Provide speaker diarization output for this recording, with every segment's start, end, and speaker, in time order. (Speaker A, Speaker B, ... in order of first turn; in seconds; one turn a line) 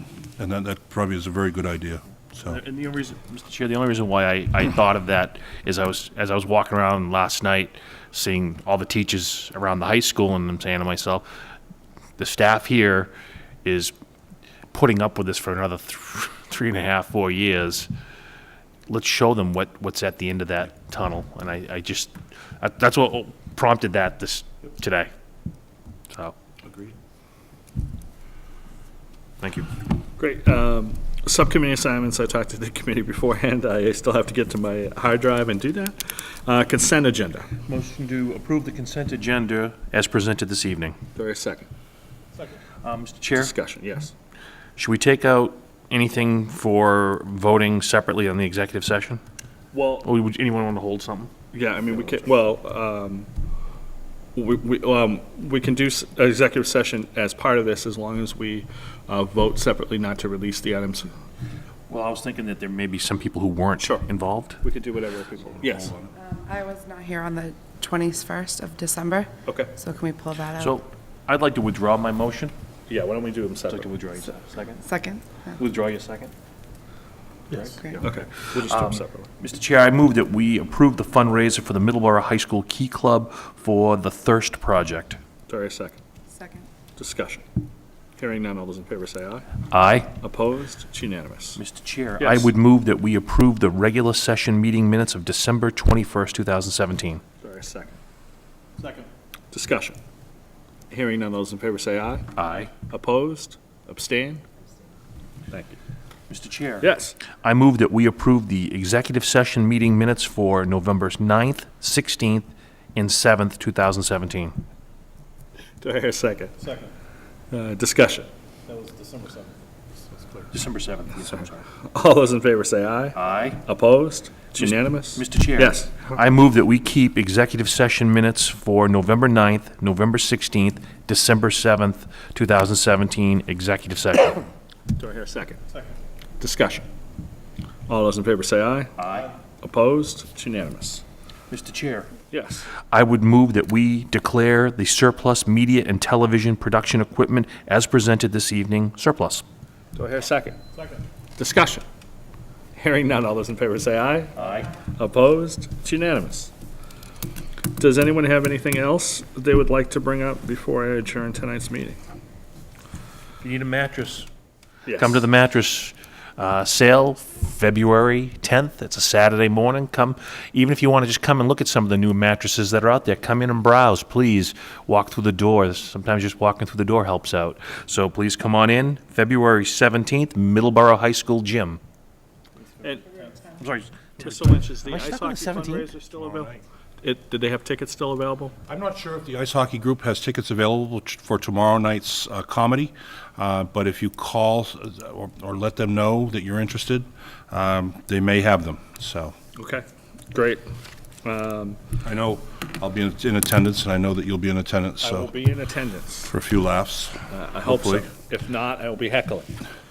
Speaker A: 0.4-2.6
Speaker B: 2.5-11.2
Speaker B: 12.2-13.1
Speaker B: 13.7-13.9
Speaker B: 14.7-17.9
Speaker B: 18.9-25.1
Speaker A: 26.6-26.9
Speaker B: 29.4-29.7
Speaker C: 30.2-37.5
Speaker B: 37.6-41.0
Speaker C: 41.1-41.7
Speaker B: 42.8-43.5
Speaker C: 43.4-44.1
Speaker B: 44.8-49.2
Speaker C: 49.7-50.1
Speaker B: 50.0-51.3
Speaker C: 51.5-53.3
Speaker C: 54.4-61.1
Speaker B: 61.9-64.6
Speaker C: 63.8-64.1
Speaker C: 64.6-65.9
Speaker A: 65.6-66.1
Speaker D: 66.2-70.8
Speaker B: 70.6-72.5
Speaker C: 72.9-73.9
Speaker B: 73.7-74.9
Speaker D: 74.8-75.3
Speaker B: 75.6-76.3
Speaker B: 77.5-85.2
Speaker D: 77.7-78.0
Speaker C: 77.9-79.3
Speaker C: 85.5-86.0
Speaker D: 86.4-86.7
Speaker C: 87.0-87.6
Speaker C: 88.2-89.5
Speaker B: 89.7-90.1
Speaker C: 90.2-91.6
Speaker B: 91.6-97.2
Speaker C: 92.2-92.5
Speaker C: 97.4-98.0
Speaker C: 98.8-100.0
Speaker C: 100.9-104.4
Speaker B: 102.4-102.7
Speaker C: 105.5-105.8
Speaker B: 106.3-114.6
Speaker C: 106.8-107.2
Speaker C: 115.8-116.9
Speaker C: 117.5-119.4
Speaker B: 120.5-121.7
Speaker C: 121.9-126.1
Speaker B: 123.2-123.6
Speaker B: 124.6-134.5
Speaker C: 135.0-135.6
Speaker C: 136.4-136.9
Speaker C: 137.9-141.0
Speaker B: 139.0-139.3
Speaker B: 141.5-142.1
Speaker C: 142.3-142.7
Speaker B: 142.9-149.4
Speaker C: 149.9-151.8
Speaker C: 152.8-156.5
Speaker B: 154.4-154.7
Speaker C: 157.8-162.0
Speaker B: 163.4-164.3
Speaker C: 164.9-165.2
Speaker B: 164.9-181.8
Speaker C: 182.8-183.4
Speaker B: 183.4-185.9
Speaker C: 184.2-188.5
Speaker A: 186.1-186.6
Speaker A: 188.7-199.3
Speaker C: 199.6-200.6
Speaker C: 201.2-201.8
Speaker A: 202.0-205.3
Speaker C: 205.0-206.3
Speaker A: 206.3-208.1
Speaker C: 207.3-209.6